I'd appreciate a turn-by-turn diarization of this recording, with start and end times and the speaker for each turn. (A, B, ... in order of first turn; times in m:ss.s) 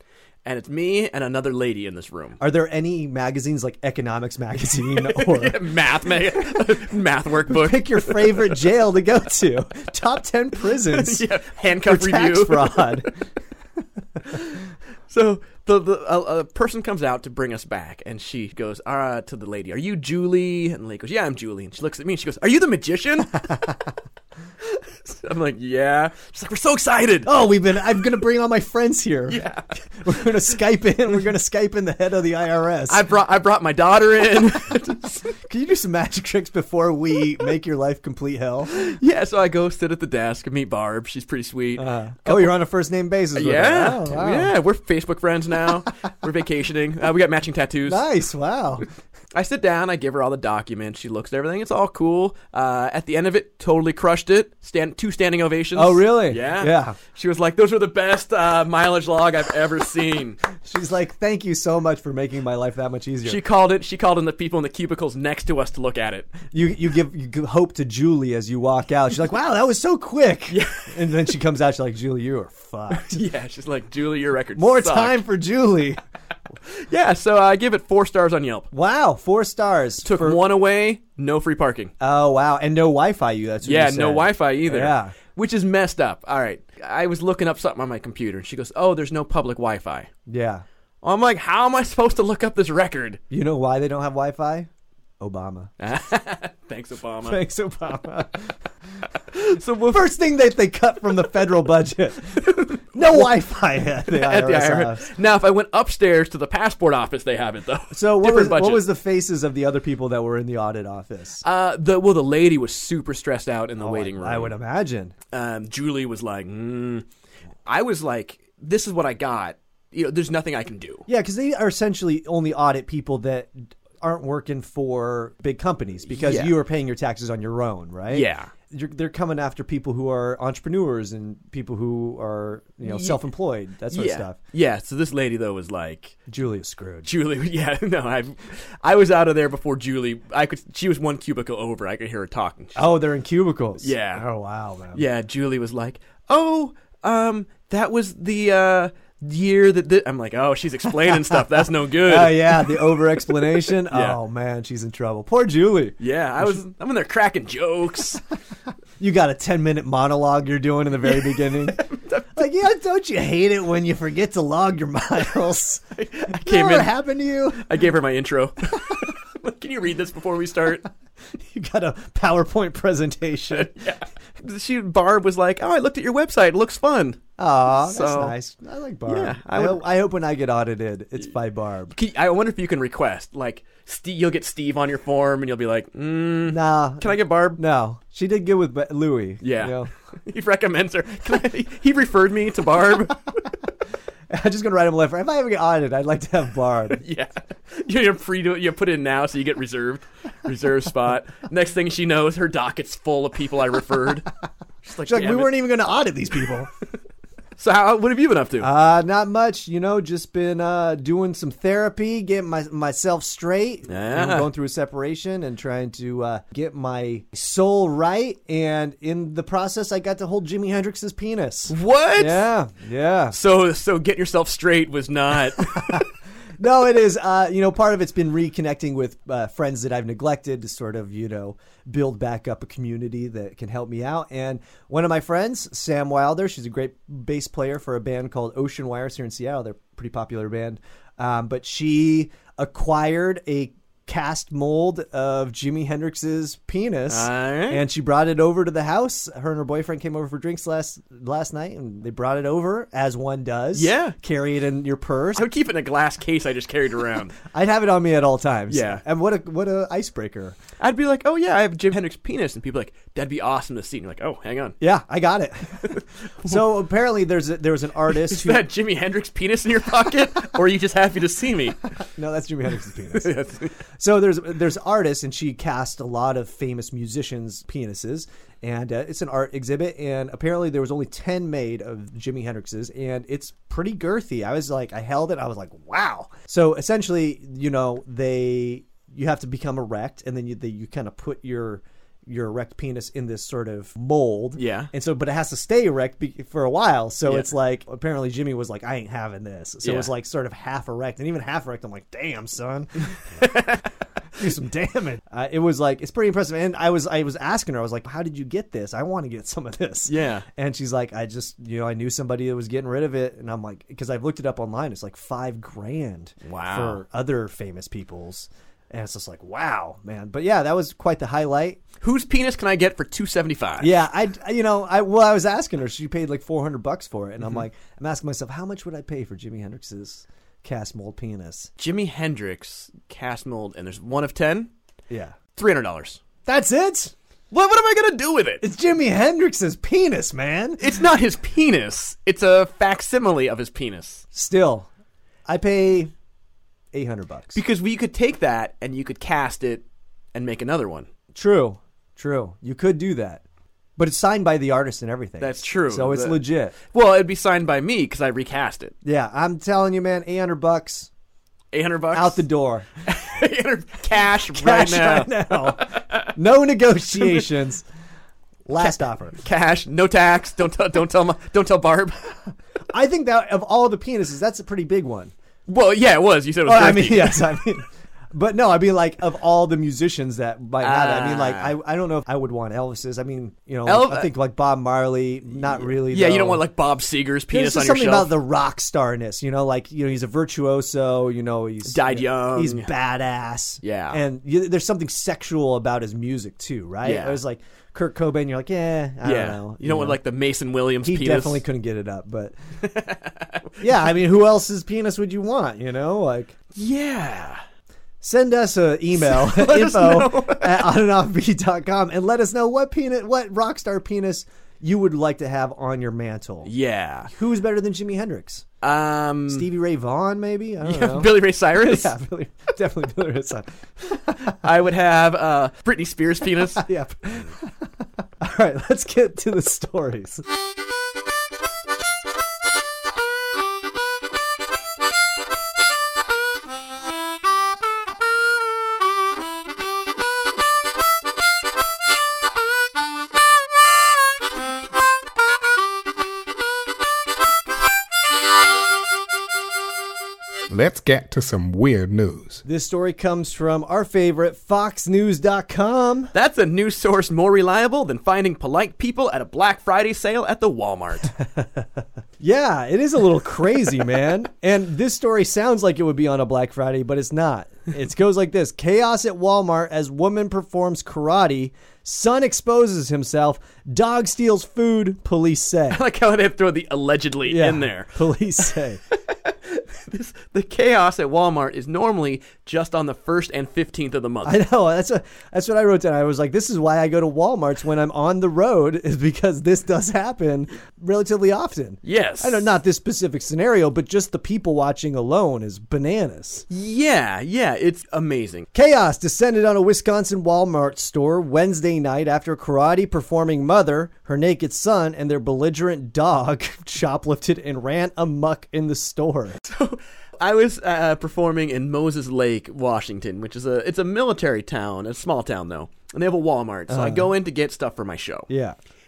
0:00.4-0:02.4 A
0:02.4-0:05.6 B
0:04.9-0:08.6 A
0:07.4-0:11.3 B
0:10.8-0:13.1 A
0:11.8-0:13.1 B
0:15.1-0:23.7 A
0:23.3-0:23.7 B
0:24.7-0:27.3 A
0:27.2-0:29.4 B
0:29.3-0:29.7 A
0:30.0-0:33.0 B
0:32.9-0:35.3 A
0:35.3-0:38.8 B
0:38.7-0:42.5 A
0:41.8-0:44.5 B
0:43.3-0:48.0 A
0:47.9-0:48.8 B
0:49.3-1:00.4 A
0:55.7-0:57.0 B
1:00.6-1:03.4 B
1:03.2-1:06.3 A
1:06.5-1:13.2 B
1:10.5-1:11.0 A
1:12.9-1:15.2 A
1:14.6-1:16.0 B
1:16.7-1:18.7 A
1:18.7-1:20.4 B
1:20.0-1:21.9 A
1:22.0-1:25.1 B
1:23.6-1:30.1 A
1:30.3-1:30.6 B
1:31.0-1:33.2 A
1:33.3-1:34.7 B
1:35.2-1:35.7 B
1:35.8-1:37.4 A
1:37.2-1:38.5 B
1:39.3-1:40.1 A
1:39.9-1:42.4 B
1:42.4-1:43.3 A
1:42.9-1:45.0 B
1:44.0-1:48.9 A
1:47.9-1:51.4 B
1:51.4-1:54.5 A
1:53.8-1:55.1 B
1:55.3-1:57.0 A
1:57.6-2:01.0 A
2:01.1-2:14.4 B
2:06.1-2:06.6 A
2:08.1-2:08.5 A
2:12.8-2:13.2 A
2:13.9-2:16.2 A
2:16.3-2:17.1 B
2:17.0-2:22.9 A
2:22.8-2:25.0 B
2:23.8-2:24.2 A
2:24.9-2:34.2 A
2:31.0-2:31.4 B
2:32.0-2:36.6 B
2:36.0-2:38.2 A
2:39.0-2:41.8 B
2:41.0-2:42.4 A
2:42.3-2:47.6 B
2:46.0-2:46.9 A
2:47.5-2:50.8 A
2:51.3-2:53.7 B
2:53.5-2:57.2 A
2:57.4-3:01.9 B
2:57.8-2:58.3 A
2:59.1-2:59.8 A
3:01.9-3:07.6 A
3:06.5-3:09.9 B
3:09.4-3:13.3 A
3:14.3-3:17.0 B
3:17.0-3:24.3 A
3:24.8-3:25.5 A
3:25.0-3:26.7 B
3:27.6-3:28.7 A
3:28.6-3:43.4 B
3:33.9-3:34.5 A
3:41.7-3:42.5 A
3:43.3-3:46.1 A
3:45.6-3:46.0 B
3:46.6-4:15.4 B
4:07.1-4:07.8 A
4:13.7-4:14.2 A
4:15.3-4:17.4 A
4:17.4-4:20.6 B
4:18.7-4:19.0 A
4:20.8-4:24.8 A
4:24.8-4:28.7 B
4:25.9-4:26.6 A
4:28.2-4:31.8 A
4:32.1-4:33.3 B
4:33.1-4:33.7 A
4:33.9-5:03.0 B
4:54.6-4:54.9 A
4:57.2-4:57.5 A
4:59.8-5:00.1 A
5:03.4-5:03.8 A
5:04.4-5:21.8 B
5:10.0-5:10.4 A
5:16.4-5:17.0 A
5:22.0-5:24.0 A
5:23.8-5:31.7 B
5:31.8-5:34.7 A
5:35.1-5:35.4 B
5:35.5-5:36.2 A
5:36.4-5:37.1 B
5:37.5-5:38.6 A
5:38.6-5:40.9 B
5:40.8-5:44.2 A
5:44.3-5:44.9 B
5:45.5-5:46.1 B
5:46.9-5:47.6 B
5:47.5-5:51.1 A
5:51.3-5:53.4 B
5:54.0-5:56.7 B
5:55.4-5:58.9 A
5:59.0-6:01.1 B
6:01.7-6:02.4 A
6:02.1-6:02.9 B
6:03.0-6:06.3 A
6:04.5-6:07.8 B
6:07.1-6:07.4 A
6:08.6-6:09.4 B
6:08.8-6:12.3 A
6:12.9-6:15.3 B
6:15.7-6:17.5 A
6:16.6-6:26.6 B
6:20.8-6:21.7 A
6:23.8-6:24.3 A
6:25.6-6:28.4 A
6:27.5-6:40.2 B
6:31.8-6:32.9 A
6:33.8-6:34.2 A
6:37.0-6:37.4 A
6:39.2-6:41.6 A
6:41.0-6:42.6 B
6:42.8-6:43.8 A
6:43.8-6:46.5 B
6:46.7-6:47.6 A
6:48.2-6:56.7 B
6:49.1-6:50.9 A
6:56.6-6:57.3 A
6:57.3-6:58.6 B
6:58.8-6:59.7 A
6:59.5-7:04.4 B
7:00.8-7:02.1 A
7:04.6-7:06.9 A
7:06.8-7:07.7 B
7:08.4-7:10.4 B
7:30.7-7:32.6 C
7:32.6-7:36.3 B
7:36.3-7:41.3 A
7:41.4-7:41.8 B
7:42.4-7:56.0 B
7:55.9-7:58.7 A
7:57.5-7:59.0 B
7:59.3-8:04.6 A
8:04.4-8:16.6 B
8:12.0-8:12.6 A
8:16.7-8:18.6 A
8:18.7-8:29.6 B
8:29.6-8:38.5 A
8:36.9-8:37.3 B
8:38.5-8:38.8 B